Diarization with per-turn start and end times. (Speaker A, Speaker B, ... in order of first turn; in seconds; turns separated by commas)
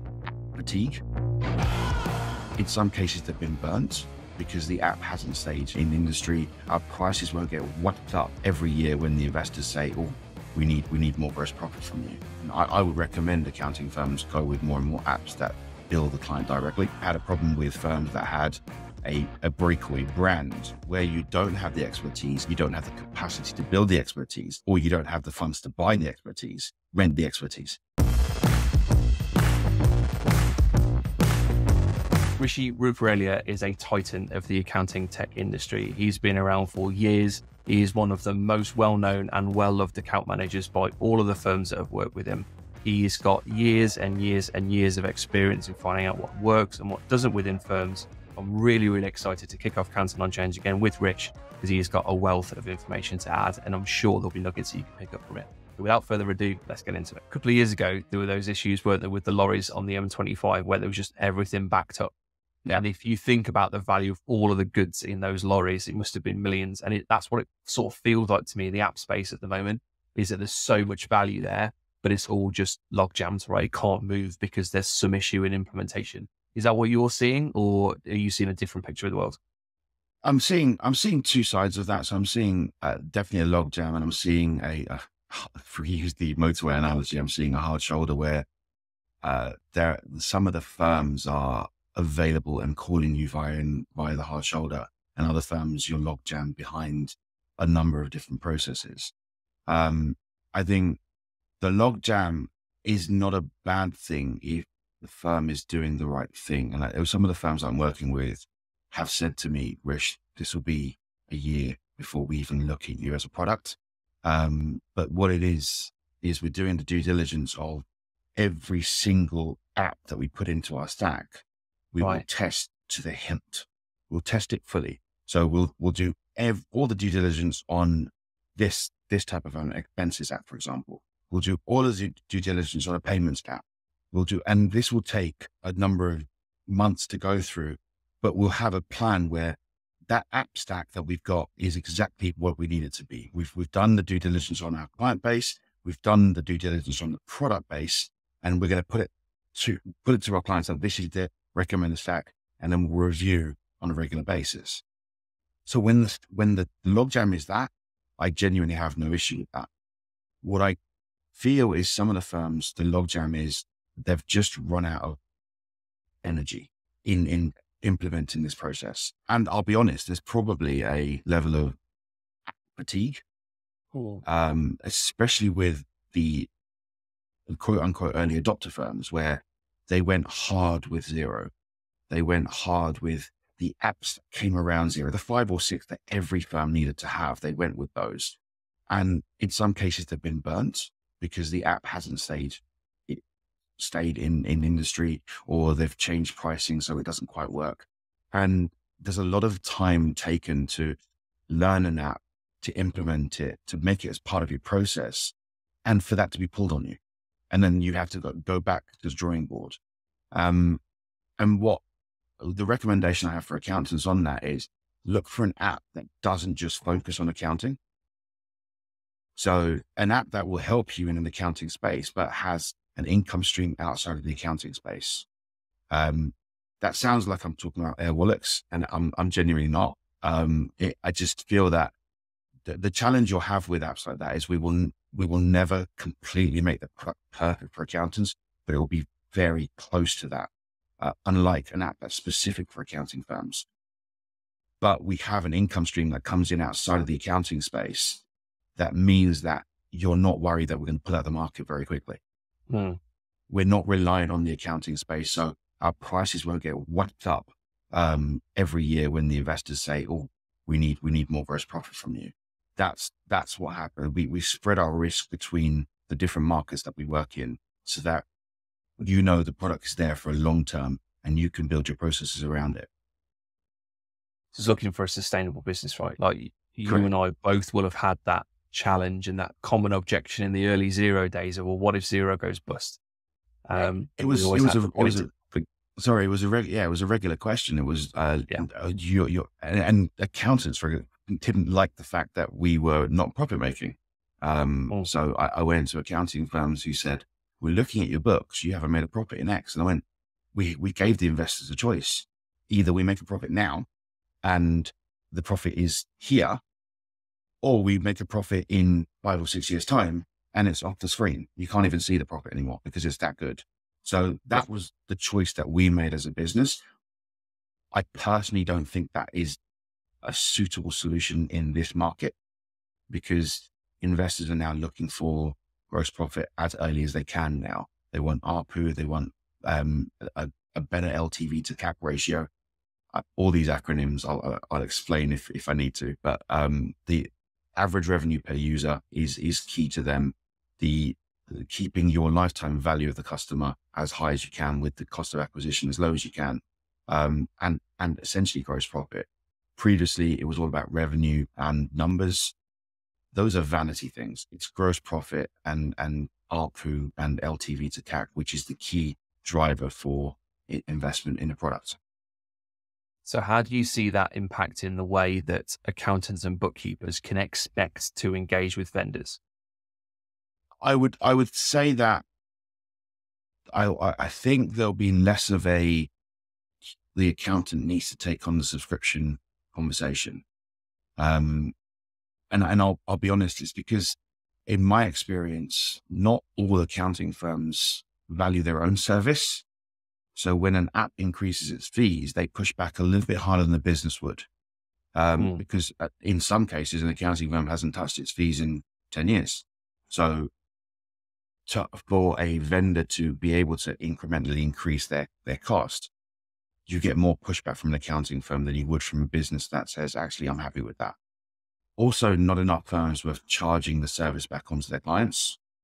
Speaker A: 0.5-1.0, Speaker A: 2.6-27.8, Speaker B: 32.4-62.1, Speaker B: 62.7-79.4, Speaker A: 80.2-88.5, Speaker A: 89.2-99.1, Speaker A: 99.7-101.0, Speaker A: 101.6-117.8, Speaker A: 118.3-139.6, Speaker B: 122.0-122.2, Speaker A: 140.1-154.8, Speaker A: 155.7-159.7, Speaker A: 160.4-160.8, Speaker A: 161.3-165.2, Speaker A: 166.2-171.8, Speaker A: 172.6-173.2, Speaker B: 173.9-174.2, Speaker A: 174.2-176.5, Speaker A: 177.5-181.5, Speaker A: 182.1-188.4, Speaker A: 188.9-193.2, Speaker A: 193.8-201.0, Speaker A: 201.5-205.3, Speaker A: 205.8-207.0, Speaker A: 207.5-209.8, Speaker A: 210.3-210.8, Speaker A: 211.4-211.8, Speaker A: 212.4-217.8, Speaker A: 219.3-225.2, Speaker A: 225.9-231.9, Speaker A: 232.6-240.5, Speaker A: 241.0-243.7, Speaker A: 244.8-248.2, Speaker A: 248.8-252.2, Speaker B: 252.7-253.0, Speaker A: 253.5-268.2, Speaker A: 269.0-272.9, Speaker B: 274.5-283.0, Speaker A: 276.8-277.1, Speaker B: 283.6-285.5, Speaker A: 284.2-303.9, Speaker A: 304.4-306.6, Speaker A: 307.6-316.8, Speaker A: 317.9-319.6, Speaker A: 320.2-322.4, Speaker A: 323.1-332.5, Speaker A: 333.1-352.5, Speaker A: 353.3-362.0, Speaker B: 363.2-369.4, Speaker A: 370.8-372.2, Speaker A: 373.7-376.1, Speaker A: 377.1-380.4, Speaker A: 381.2-381.7, Speaker A: 382.5-389.6, Speaker A: 390.3-394.5, Speaker A: 395.1-400.5, Speaker B: 395.4-395.6, Speaker A: 401.7-406.1, Speaker A: 406.9-411.1, Speaker A: 412.0-415.6